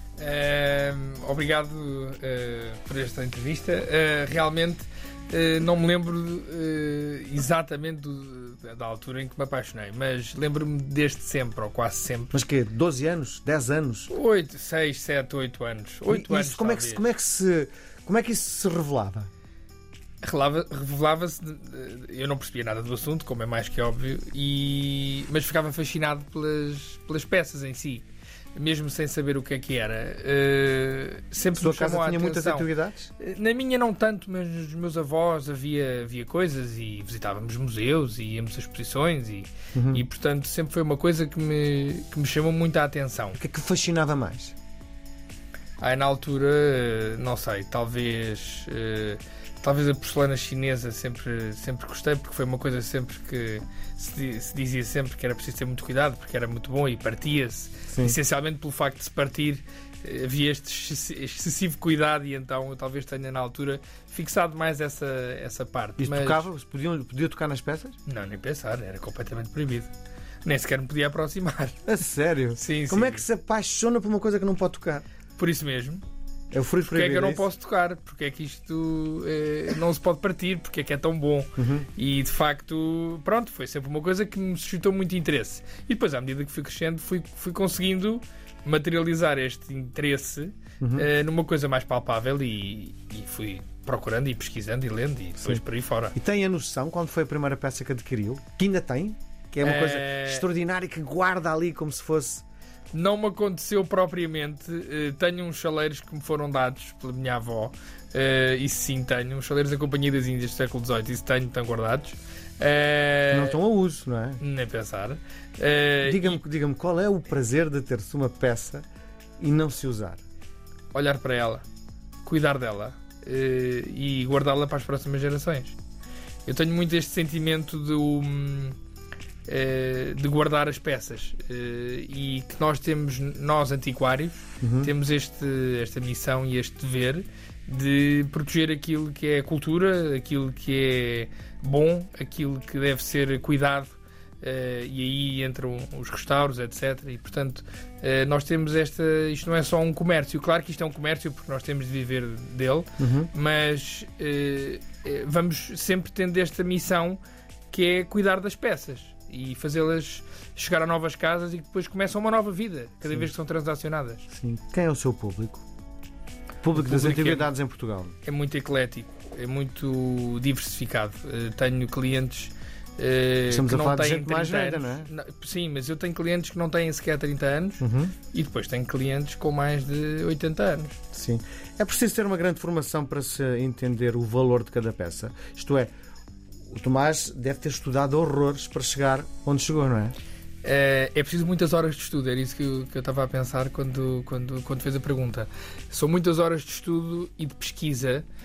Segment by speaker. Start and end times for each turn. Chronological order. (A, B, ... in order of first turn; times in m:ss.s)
0:00.2-0:12.4 A
0:12.3-0:14.1 B
0:14.1-0:17.0 A
0:16.1-0:19.3 B
0:20.2-0:43.4 A
0:31.6-0:33.1 B
0:39.7-0:40.0 B
0:43.3-0:44.5 B
0:45.8-1:06.5 A
0:57.9-0:58.2 B
1:06.0-1:08.0 B
1:08.0-1:09.9 A
1:10.4-1:11.8 A
1:11.8-1:15.0 B
1:12.5-1:13.2 A
1:15.4-1:16.0 A
1:16.5-1:17.5 B
1:16.8-1:36.1 A
1:21.6-1:21.9 B
1:30.8-1:31.1 B
1:36.1-1:42.4 B
1:39.6-1:40.4 A
1:42.9-1:53.6 A
1:53.3-1:54.4 B
1:54.4-1:56.4 A
1:56.0-1:58.8 B
1:59.4-2:00.2 B
2:00.9-2:01.6 A
2:02.2-2:05.8 A
2:06.4-2:08.8 A
2:09.5-2:44.2 A
2:14.6-2:14.9 B
2:33.0-2:33.3 B
2:44.3-2:45.6 B
2:46.6-2:48.1 B
2:46.7-2:47.5 A
2:48.2-3:01.0 A
2:53.5-2:55.1 B
2:57.8-2:58.1 B
3:01.1-3:05.9 B
3:06.7-3:10.1 B
3:10.6-3:18.2 A